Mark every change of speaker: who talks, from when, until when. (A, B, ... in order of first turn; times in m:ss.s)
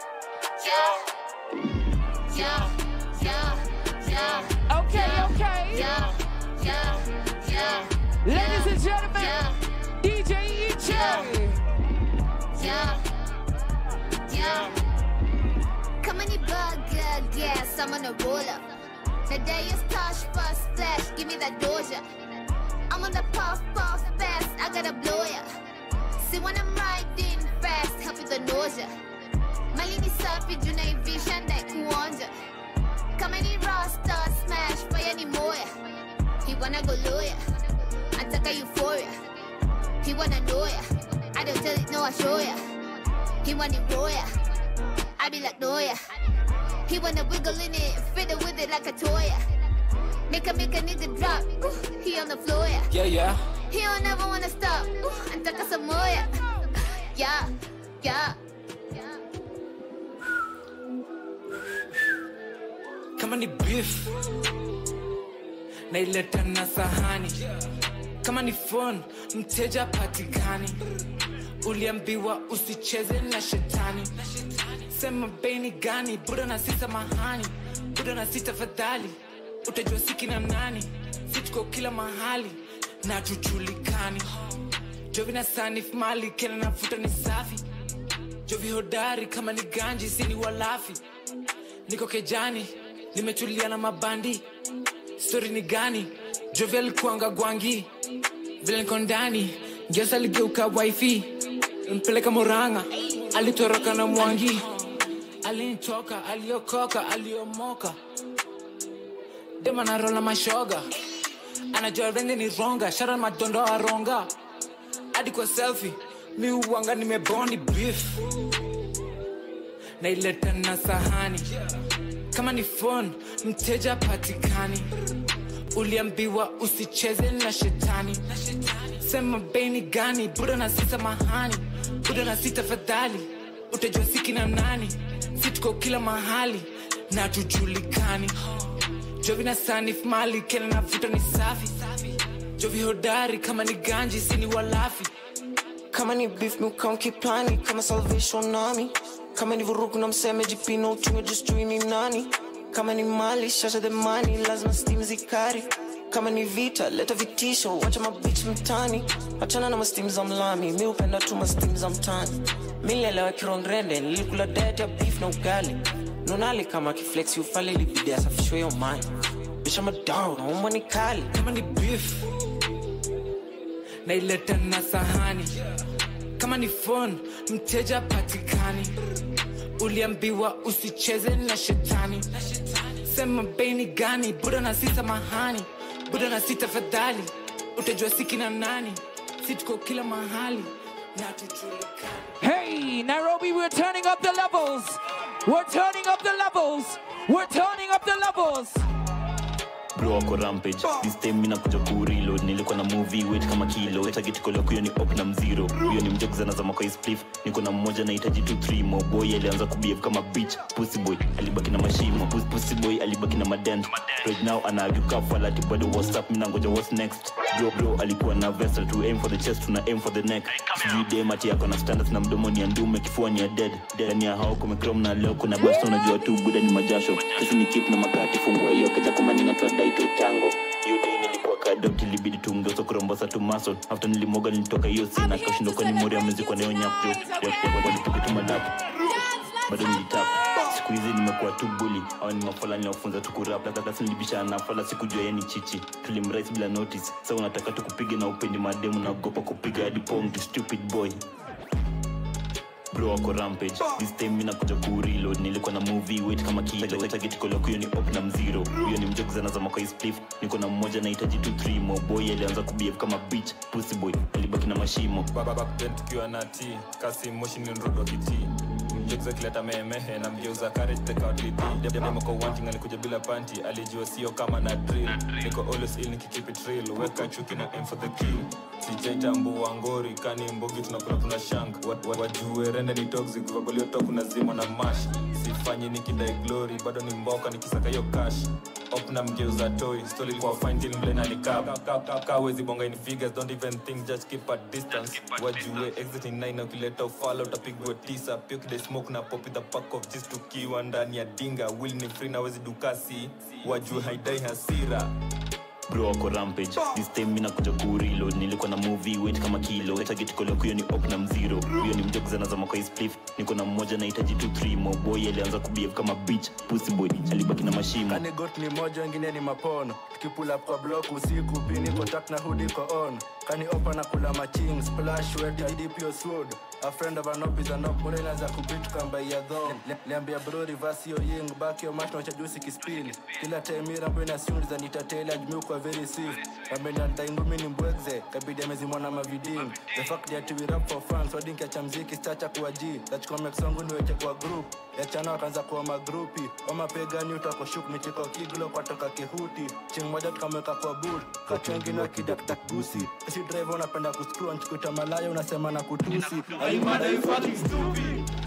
0:00.6-0:01.0 A
0:02.3-0:09.6 A
0:04.7-0:05.9 B
0:08.3-0:09.5 B
0:10.0-0:11.6 B
0:10.8-0:11.3 A
0:12.6-0:13.0 A
0:14.3-0:14.8 A
0:16.0-0:18.6 A
0:19.3-0:22.0 A
0:22.9-0:25.4 A
0:26.2-0:28.9 A
0:29.7-0:32.3 A
0:33.2-0:35.7 A
0:36.4-0:37.4 A
0:38.2-0:39.1 A
0:40.0-0:40.8 A
0:41.4-0:42.6 A
0:43.4-0:44.3 A
0:45.2-0:46.0 A
0:46.9-0:49.4 A
0:50.3-0:52.9 A
0:52.9-0:53.3 C
0:53.7-0:56.2 A
0:57.2-0:57.5 A
0:58.0-0:58.4 A
1:03.2-1:04.2 C
1:05.9-1:07.4 C
1:08.2-1:10.8 C
1:11.6-1:24.3 C
1:25.1-1:27.6 C
1:28.5-1:31.0 C
1:31.9-1:34.5 C
1:35.2-1:37.9 C
1:38.6-1:44.9 C
1:45.4-1:48.0 C
1:49.6-1:50.9 C
1:51.7-1:54.3 C
1:55.1-1:58.2 C
2:00.0-2:01.5 C
2:02.3-2:04.9 C
2:05.8-2:18.4 C
2:19.2-2:25.1 C
2:25.9-2:49.1 D
2:49.6-2:51.3 D
2:51.3-2:52.3 C
2:54.0-2:55.5 C
2:56.4-2:58.9 C
2:59.8-3:12.4 C
3:12.4-3:18.8 B
3:20.0-3:58.7 E
3:59.7-4:11.2 E
4:12.9-4:25.3 E
4:25.3-5:05.1 F
5:05.9-5:18.2 E
5:18.1-5:57.6 G